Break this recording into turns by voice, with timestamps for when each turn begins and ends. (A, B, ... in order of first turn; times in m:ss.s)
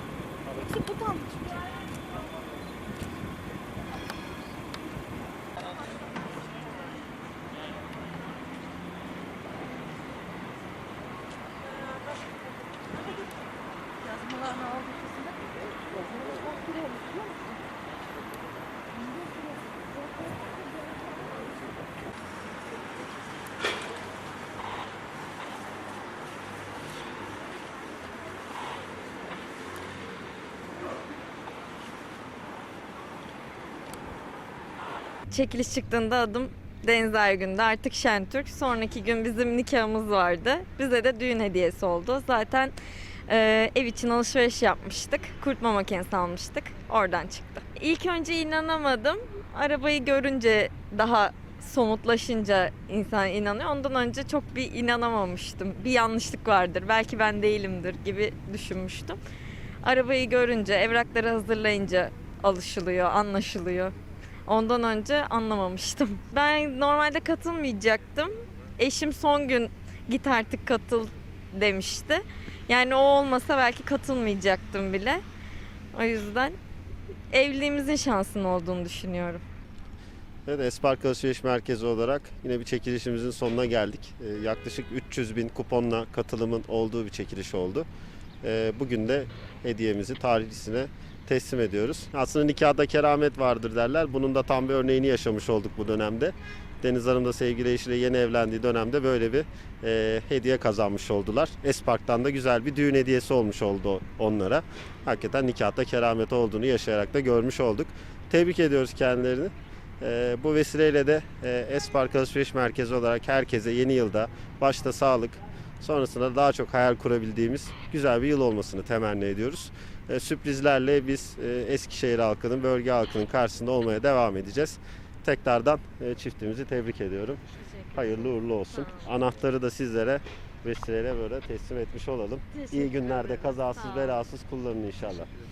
0:00.6-0:01.7 A
0:14.0-0:17.6 A
0:19.0-0:20.2 A
0:35.3-0:42.7 B
0:43.3-0:59.2 B
0:59.8-1:03.9 B
1:04.5-1:15.2 B
1:15.9-1:16.6 B
1:17.3-1:19.4 B
1:20.4-1:27.9 C
1:28.4-2:07.4 C
2:07.6-2:09.2 B
2:07.9-2:15.3 C
2:12.5-2:14.3 B